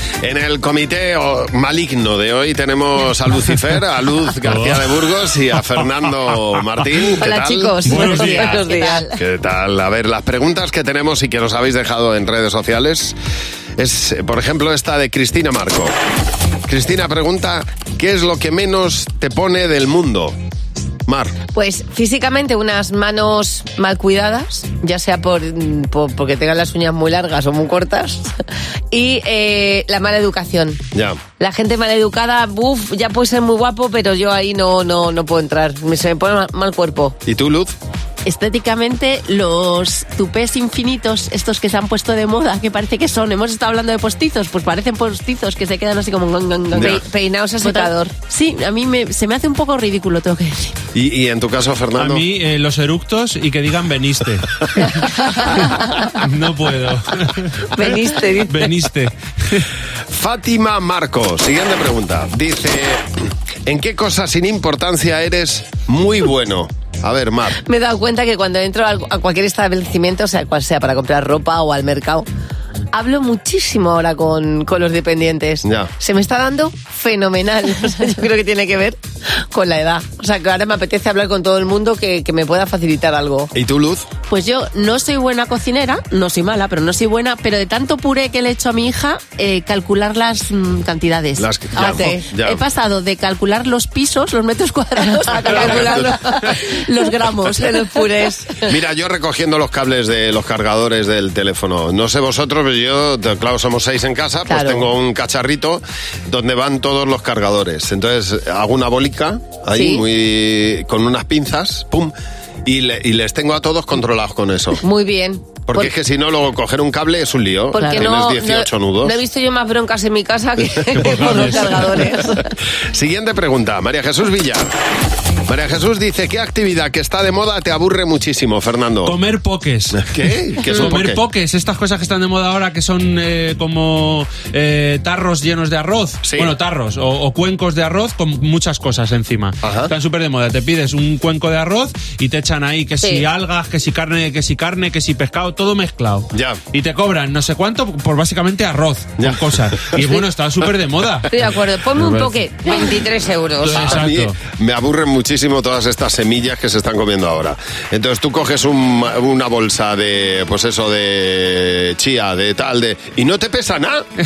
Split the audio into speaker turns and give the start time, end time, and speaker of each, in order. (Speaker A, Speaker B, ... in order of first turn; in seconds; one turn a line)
Speaker A: 0.2-8.2
Speaker B: 4.4-5.0
Speaker C: 7.2-9.2
Speaker B: 7.8-8.7
Speaker D: 8.2-9.0
Speaker A: 9.2-13.2
Speaker A: 13.8-15.9
Speaker A: 16.7-20.4
Speaker A: 21.1-21.3
Speaker C: 21.5-28.4
Speaker C: 28.9-30.8
Speaker A: 30.9-31.2
Speaker C: 31.4-37.2
Speaker A: 37.3-37.7
Speaker D: 38.3-46.2
Speaker C: 46.3-48.2
Speaker A: 46.7-47.0
Speaker D: 47.6-50.8
Speaker A: 51.0-52.2
Speaker B: 52.0-59.7
Speaker C: 57.7-58.7
Speaker A: 60.1-67.6
Speaker C: 67.6-72.3
Speaker C: 72.9-83.5
Speaker A: 75.6-75.9
Speaker A: 83.5-84.0
Speaker D: 84.3-97.8
Speaker A: 91.4-92.7
Speaker C: 91.8-92.3
Speaker C: 95.1-95.8
Speaker A: 95.5-96.2
Speaker B: 95.5-96.1
Speaker C: 97.5-98.7
Speaker A: 98.6-112.1
Speaker C: 109.7-110.0
Speaker A: 112.7-114.8
Speaker C: 114.8-115.9
Speaker A: 115.7-119.2
Speaker C: 117.7-122.5
Speaker B: 121.0-122.1
Speaker A: 122.8-124.7
Speaker A: 125.5-129.2
Speaker B: 129.1-152.4
Speaker A: 129.9-131.2
Speaker A: 136.2-136.6
Speaker A: 139.6-139.9
Speaker A: 146.3-146.6
Speaker A: 149.2-150.2
Speaker C: 151.3-153.9
Speaker B: 153.6-154.4
Speaker A: 153.8-164.1